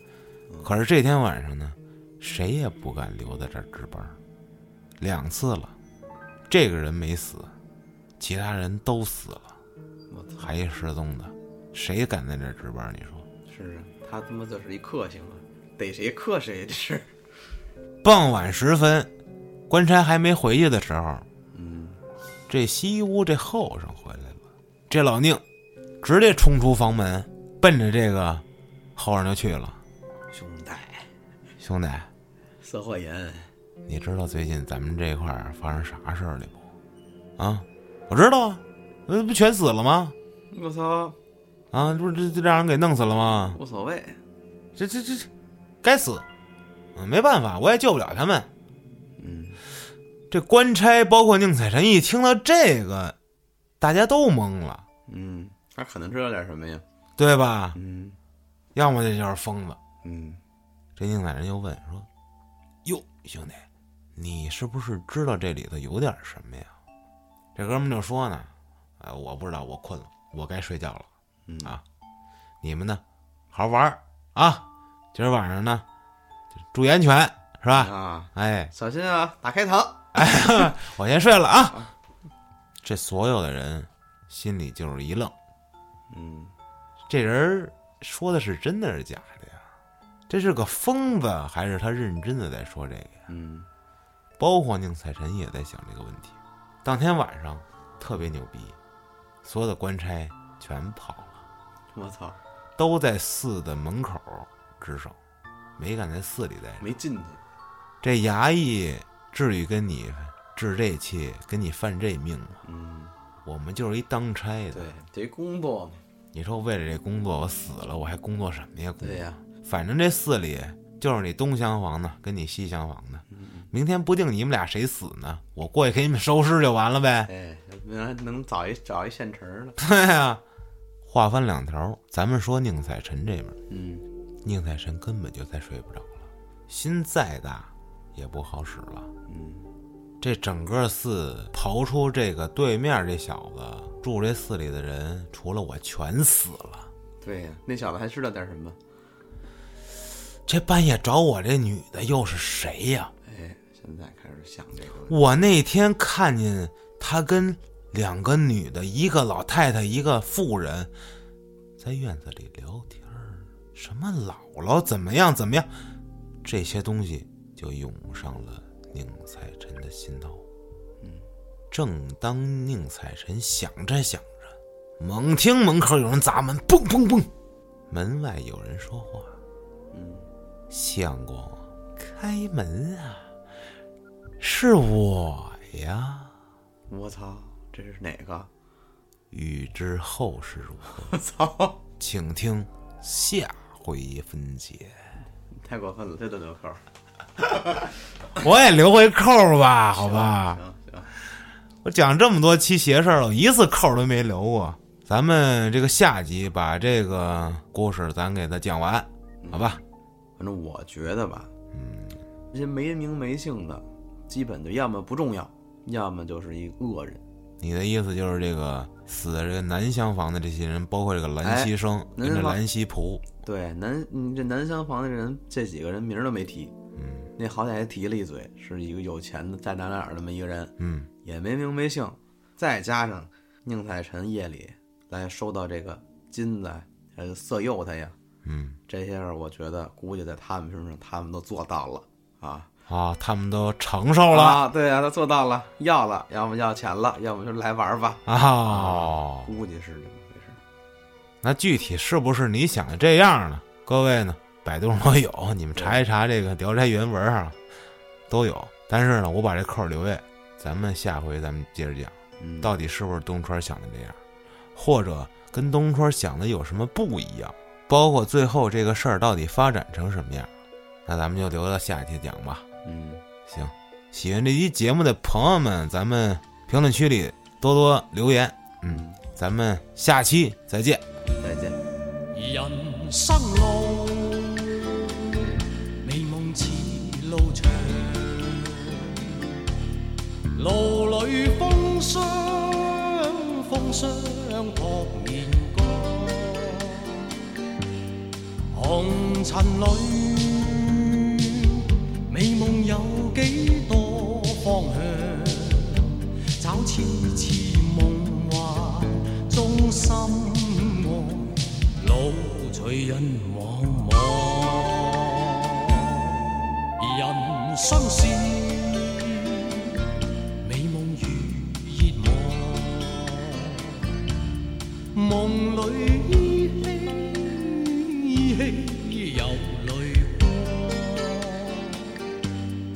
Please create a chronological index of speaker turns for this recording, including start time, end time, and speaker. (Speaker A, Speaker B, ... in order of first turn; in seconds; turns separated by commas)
Speaker A: 0.5-0.8, Speaker B: 0.6-4.2, Speaker B: 5.0-5.7, Speaker B: 6.5-7.5, Speaker B: 8.2-9.5, Speaker A: 10.1-10.5, Speaker B: 10.4-13.2, Speaker A: 13.4-17.1, Speaker B: 18.0-19.1, Speaker B: 19.7-21.2, Speaker A: 21.5-22.0, Speaker B: 22.5-25.4, Speaker B: 26.0-28.4, Speaker B: 28.9-29.8, Speaker A: 30.3-31.1, Speaker B: 31.6-32.1, Speaker A: 32.6-33.5, Speaker B: 33.9-36.6, Speaker B: 37.4-40.1, Speaker A: 40.5-41.2, Speaker B: 41.7-43.6, Speaker A: 43.5-44.2, Speaker B: 44.8-45.3, Speaker B: 45.8-46.2, Speaker B: 46.9-48.5, Speaker A: 49.2-49.6, Speaker B: 50.3-53.1, Speaker B: 53.8-54.9, Speaker A: 55.1-56.8, Speaker B: 57.2-57.8, Speaker A: 57.7-58.2, Speaker B: 58.7-59.8, Speaker A: 60.0-60.4, Speaker B: 61.0-62.1, Speaker B: 62.9-63.6, Speaker B: 64.2-66.7, Speaker B: 67.5-71.1, Speaker A: 71.5-71.8, Speaker B: 72.6-75.8, Speaker B: 76.7-78.7, Speaker A: 77.7-80.0, Speaker B: 80.1-81.9, Speaker B: 82.8-85.3, Speaker A: 86.1-86.5, Speaker B: 87.1-89.6, Speaker B: 90.3-93.2, Speaker A: 93.3-93.7, Speaker B: 94.4-98.8, Speaker B: 99.4-101.4, Speaker A: 101.9-102.4, Speaker B: 102.8-105.2, Speaker B: 105.8-106.9, Speaker A: 106.8-107.4, Speaker B: 108.0-112.6, Speaker A: 112.6-113.1, Speaker B: 113.4-114.9, Speaker A: 114.7-116.0, Speaker B: 116.3-127.3, Speaker A: 119.0-119.4, Speaker A: 123.3-123.7, Speaker A: 127.2-129.8, Speaker B: 129.8-130.4, Speaker B: 131.1-133.6, Speaker A: 133.7-134.1, Speaker B: 134.4-139.1, Speaker A: 139.3-139.7, Speaker B: 140.2-146.9, Speaker A: 147.2-148.8, Speaker B: 150.4-153.1, Speaker A: 153.2-155.3, Speaker B: 155.1-160.9, Speaker B: 161.8-165.7, Speaker B: 166.4-170.4, Speaker A: 171.0-171.3, Speaker B: 171.7-177.3, Speaker B: 177.9-179.3, Speaker A: 179.9-180.3, Speaker B: 180.7-183.3, Speaker B: 184.4-186.3, Speaker A: 186.9-188.5, Speaker B: 189.3-191.1, Speaker A: 191.0-191.8, Speaker B: 192.0-195.0, Speaker A: 195.5-196.8, Speaker A: 197.6-197.8, Speaker B: 198.3-200.6, Speaker A: 199.9-201.1, Speaker B: 201.8-209.8, Speaker A: 209.4-209.8, Speaker A: 210.4-211.5, Speaker B: 211.7-212.2, Speaker A: 212.5-217.2, Speaker B: 217.6-223.2, Speaker A: 221.4-222.6, Speaker A: 223.4-226.7, Speaker B: 227.0-227.3, Speaker A: 227.4-238.2, Speaker B: 230.8-231.1, Speaker B: 238.4-238.8, Speaker A: 238.9-242.7, Speaker B: 242.9-244.6, Speaker A: 244.3-250.6, Speaker B: 248.2-249.5, Speaker B: 251.4-257.6, Speaker B: 258.3-264.2, Speaker A: 262.4-262.7, Speaker B: 264.8-270.5, Speaker B: 271.1-272.6, Speaker A: 272.8-273.2, Speaker B: 273.5-281.0, Speaker A: 278.9-279.2, Speaker A: 281.4-281.8, Speaker C: 282.3-289.4, Speaker C: 290.5-297.3, Speaker C: 298.7-316.4, Speaker C: 317.0-320.1, Speaker C: 320.6-324.1, Speaker C: 325.1-332.1